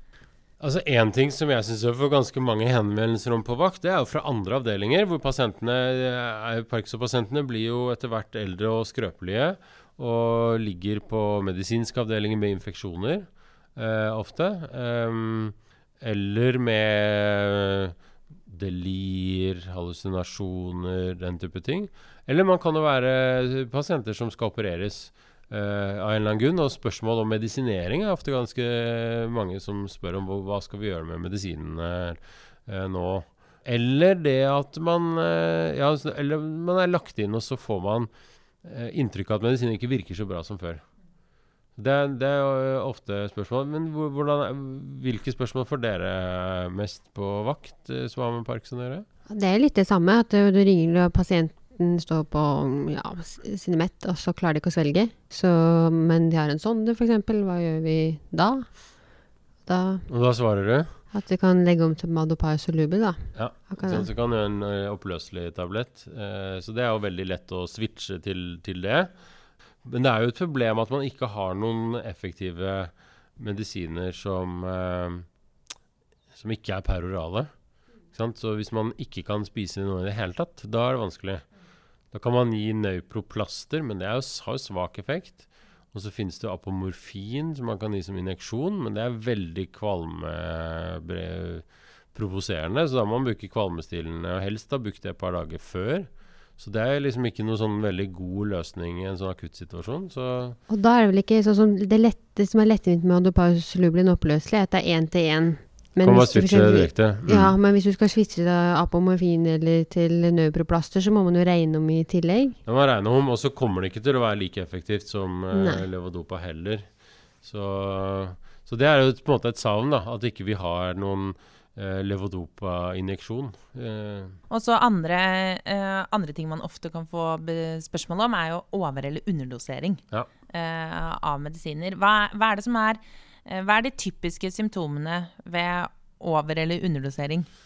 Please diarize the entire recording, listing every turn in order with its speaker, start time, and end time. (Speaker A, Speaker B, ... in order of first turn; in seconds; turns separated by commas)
Speaker A: 0.6-17.9, Speaker A: 18.5-38.1, Speaker A: 38.6-40.8, Speaker A: 41.8-49.0, Speaker B: 49.3-59.0, Speaker B: 59.6-60.1, Speaker A: 60.1-61.0, Speaker B: 61.1-64.1, Speaker A: 63.3-69.1, Speaker A: 69.8-75.3, Speaker A: 76.3-77.5, Speaker A: 78.1-81.5, Speaker A: 82.1-100.6, Speaker B: 100.7-112.6, Speaker A: 106.0-107.5, Speaker A: 112.7-116.8, Speaker B: 115.5-115.8, Speaker A: 117.4-124.4, Speaker C: 124.5-137.5